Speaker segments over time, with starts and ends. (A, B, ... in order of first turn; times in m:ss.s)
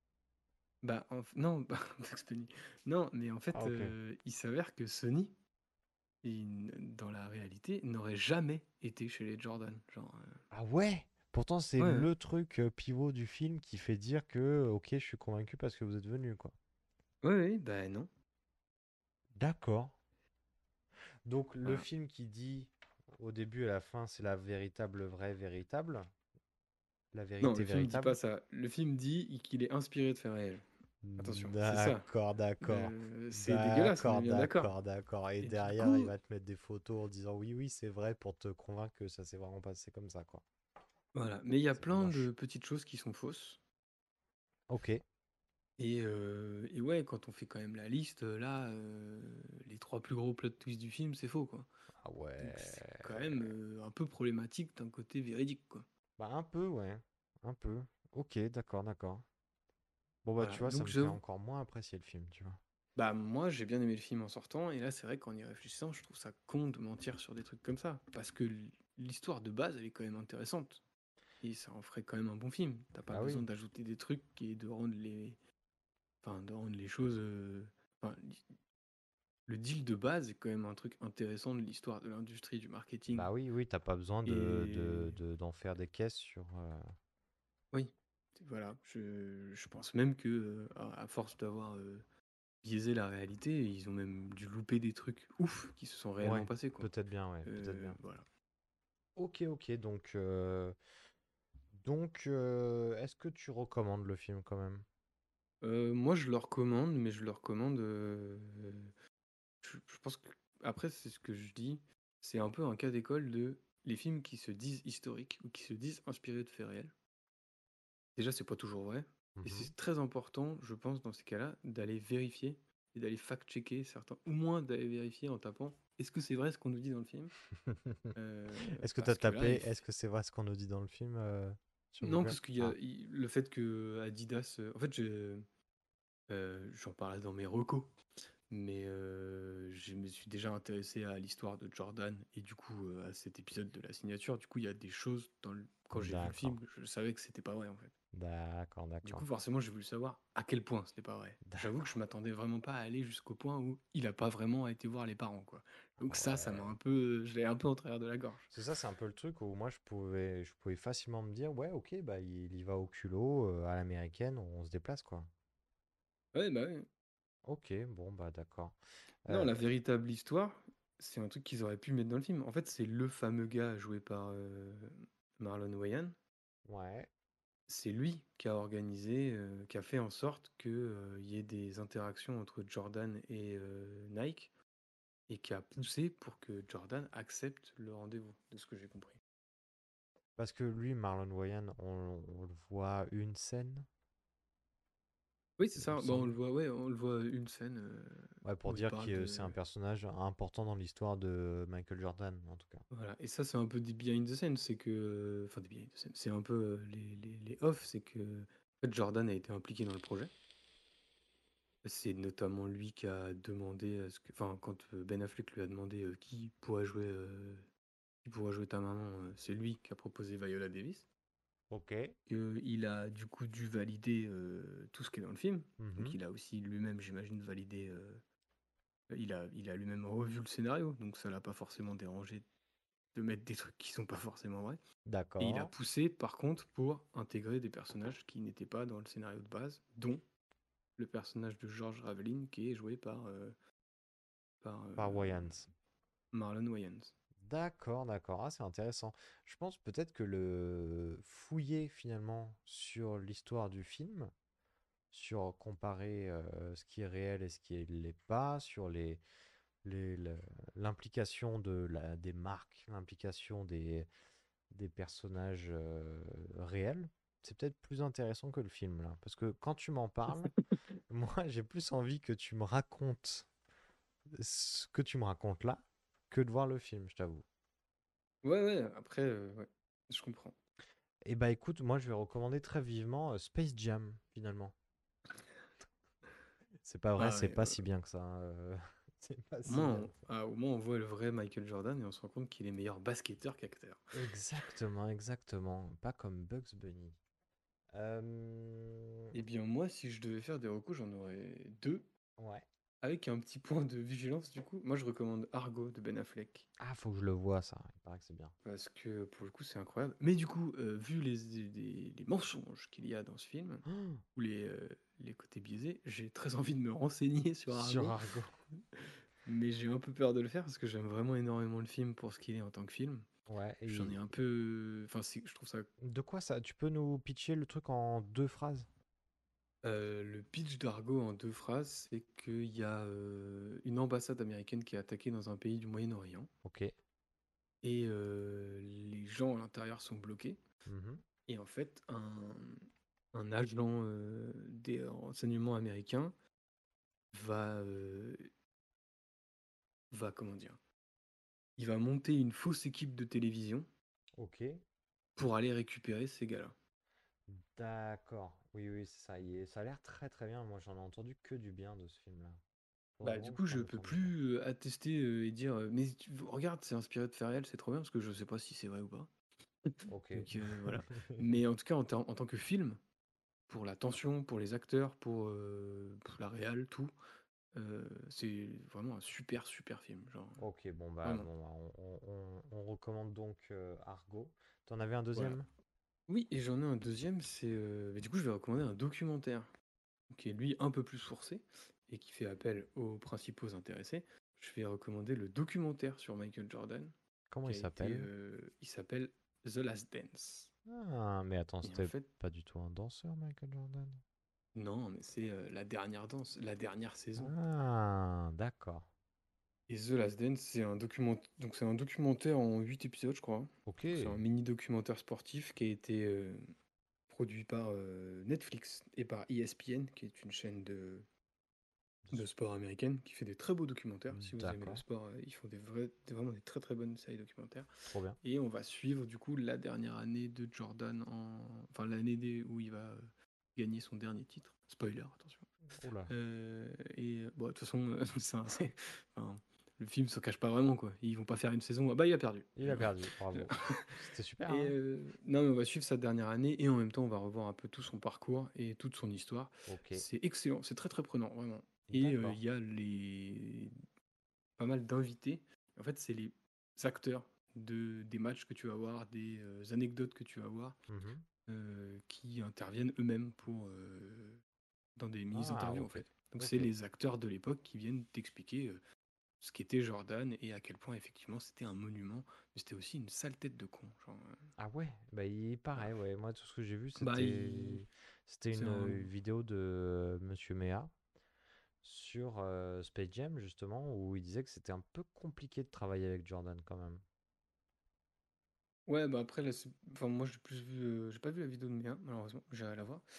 0:00.8-0:05.4 A
0:03.5-0:03.9 B
0:06.2-0:10.4 A
0:10.5-0:16.5 B
0:11.8-0:12.1 A
0:17.2-0:18.1 A
0:19.3-0:20.0 B
0:21.2-0:26.1 B
0:27.1-0:28.2 B
0:27.4-0:30.6 A
0:31.0-0:40.4 B
0:31.2-0:32.1 A
0:32.6-0:34.7 A
0:35.4-0:36.1 A
0:41.1-0:43.6 A
0:41.7-0:42.3 B
0:44.7-0:45.0 B
0:45.8-0:51.7 A
0:52.0-0:53.5 B
0:52.4-0:55.8 A
0:56.2-0:59.2 B
1:00.2-1:02.6 B
1:00.4-1:01.2 A
1:03.0-1:10.8 A
1:11.4-1:15.4 A
1:13.1-1:13.4 B
1:16.2-1:18.4 A
1:19.5-1:23.3 A
1:23.1-1:26.9 B
1:24.2-1:25.2 A
1:27.7-1:32.0 A
1:32.6-1:36.9 A
1:36.2-1:38.0 B
1:37.4-1:38.2 A
1:39.2-1:40.8 B
1:41.7-1:44.8 B
1:45.6-1:48.9 A
1:49.6-1:56.9 A
1:58.2-2:07.3 A
1:59.4-1:59.7 B
2:07.6-2:08.1 B
2:08.1-2:09.8 A
2:08.8-2:12.8 B
2:12.0-2:15.4 A
2:16.3-2:17.9 A
2:18.5-2:27.9 A
2:25.9-2:26.6 B
2:28.1-2:29.3 B
2:29.0-2:38.5 A
2:31.4-2:31.7 B
2:36.0-2:36.8 B
2:38.5-2:45.3 B
2:46.3-2:46.9 A
2:47.4-2:49.5 B
2:49.3-2:56.2 A
2:56.6-2:57.1 B
2:57.7-3:04.5 A
3:05.3-3:09.2 A
3:10.4-3:13.9 B
3:15.6-3:19.6 A
3:15.8-3:16.4 B
3:18.4-3:22.8 B
3:22.9-3:30.3 A
3:31.8-3:37.6 A
3:38.2-3:41.1 A
3:41.7-3:42.1 B
3:42.3-3:48.2 A
3:45.8-3:46.2 B
3:49.1-3:52.4 A
3:53.1-3:54.8 A
3:55.0-3:55.7 B
3:55.4-4:00.2 A
4:01.0-4:03.5 A
4:04.6-4:05.6 A
4:05.0-4:05.7 B
4:06.3-4:07.1 A
4:07.4-4:14.3 B
4:15.1-4:19.2 B
4:19.8-4:24.1 B
4:24.7-4:30.5 B
4:31.1-4:33.5 B
4:34.3-4:37.4 B
4:38.4-4:40.6 A
4:41.2-4:44.7 B
4:46.8-4:50.1 B
4:47.2-4:47.8 A
4:49.6-4:54.1 A
4:54.1-4:57.2 B
4:57.9-4:59.3 B
4:59.3-5:02.0 A
5:02.4-5:02.6 B
5:03.0-5:06.7 A
5:06.8-5:08.5 B
5:08.6-5:18.2 A
5:13.8-5:14.2 B
5:17.7-5:18.6 B
5:18.9-5:23.3 A
5:23.5-5:24.2 B
5:23.9-5:25.9 A
5:26.0-5:28.9 B
5:29.8-5:36.5 A
5:36.6-5:36.9 B
5:37.8-5:40.6 A
5:40.8-5:41.2 B
5:41.5-5:46.4 A
5:47.3-5:48.5 A
5:50.1-5:50.8 A
5:51.8-5:53.9 A
5:54.4-5:54.8 B
5:55.4-5:56.7 A
5:57.5-6:02.6 B
6:03.2-6:04.3 B
6:03.2-6:09.3 A
6:09.8-6:13.0 A
6:10.1-6:11.6 B
6:13.7-6:17.1 A
6:17.7-6:20.6 A
6:20.6-6:25.7 B
6:25.3-6:25.6 A
6:26.3-6:29.7 A
6:30.3-6:40.7 A
6:37.5-6:38.3 B
6:40.8-6:44.2 B
6:41.8-6:42.3 A
6:44.7-6:47.5 A
6:47.4-6:49.1 B
6:49.9-6:56.7 A
6:53.8-6:54.4 B
6:57.3-7:01.3 A
7:02.3-7:07.9 A
7:04.3-7:05.0 B
7:08.1-7:08.4 B
7:08.4-7:15.7 A
7:15.9-7:16.3 B
7:16.3-7:24.1 A
7:22.8-7:24.9 B
7:24.7-7:33.9 A
7:29.9-7:30.2 B
7:32.1-7:32.6 B
7:34.8-7:41.0 A
7:41.1-7:41.4 B
7:41.7-7:44.6 A
7:45.2-7:49.0 A
7:45.5-7:46.9 B
7:49.6-7:54.7 A
7:54.8-8:01.1 B
7:57.2-7:58.0 A
7:58.7-7:59.3 A
8:02.0-8:07.2 B
8:09.1-8:13.2 A